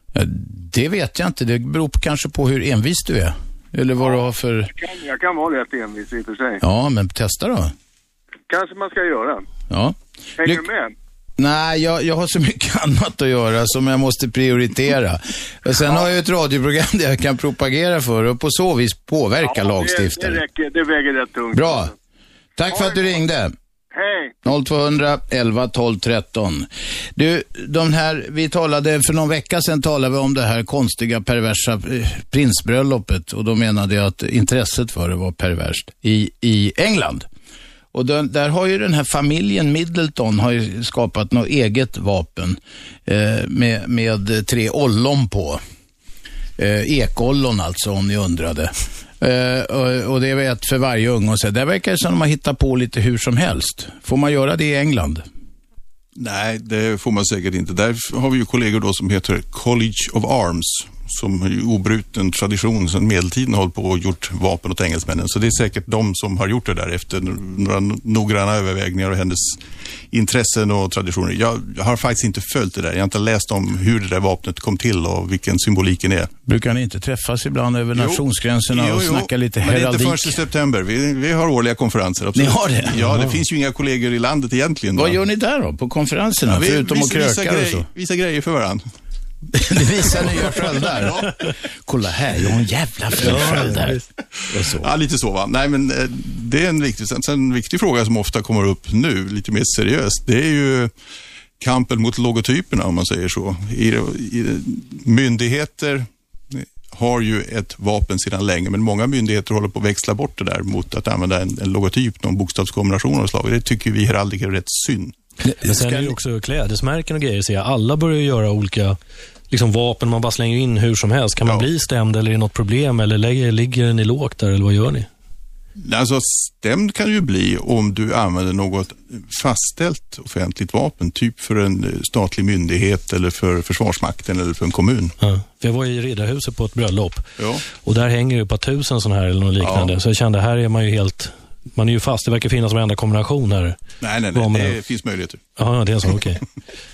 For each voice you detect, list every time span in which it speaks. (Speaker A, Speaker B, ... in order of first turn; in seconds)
Speaker A: 0.1-4.7, 6.6-7.7, 9.7-10.7, 11.4-20.4, 21.5-21.9, 22.6-23.5, 24.4-37.3, 37.9-45.6, 46.6-55.2, 76.5-80.4, 82.3-83.0, 85.0-87.8, 89.6-91.3, 91.8-94.0, 94.5-94.9, 115.4-116.1
Speaker B: 4.7-6.6, 8.5-9.4, 10.4-10.9, 15.8-16.1, 19.4-21.9, 22.7-23.1, 23.9-24.3
Speaker C: 56.2-69.6, 70.1-76.3, 78.0-78.2, 78.7-85.2, 86.5-88.8, 90.1-91.3, 93.3-93.5, 94.7-100.9, 101.6-115.1, 125.8-135.2, 137.4-137.6, 139.6-139.9, 144.0-145.4
Speaker D: 83.1-83.4, 93.2-94.0, 115.6-119.0, 119.5-125.1, 135.2-143.8, 144.3-144.8, 145.6-146.4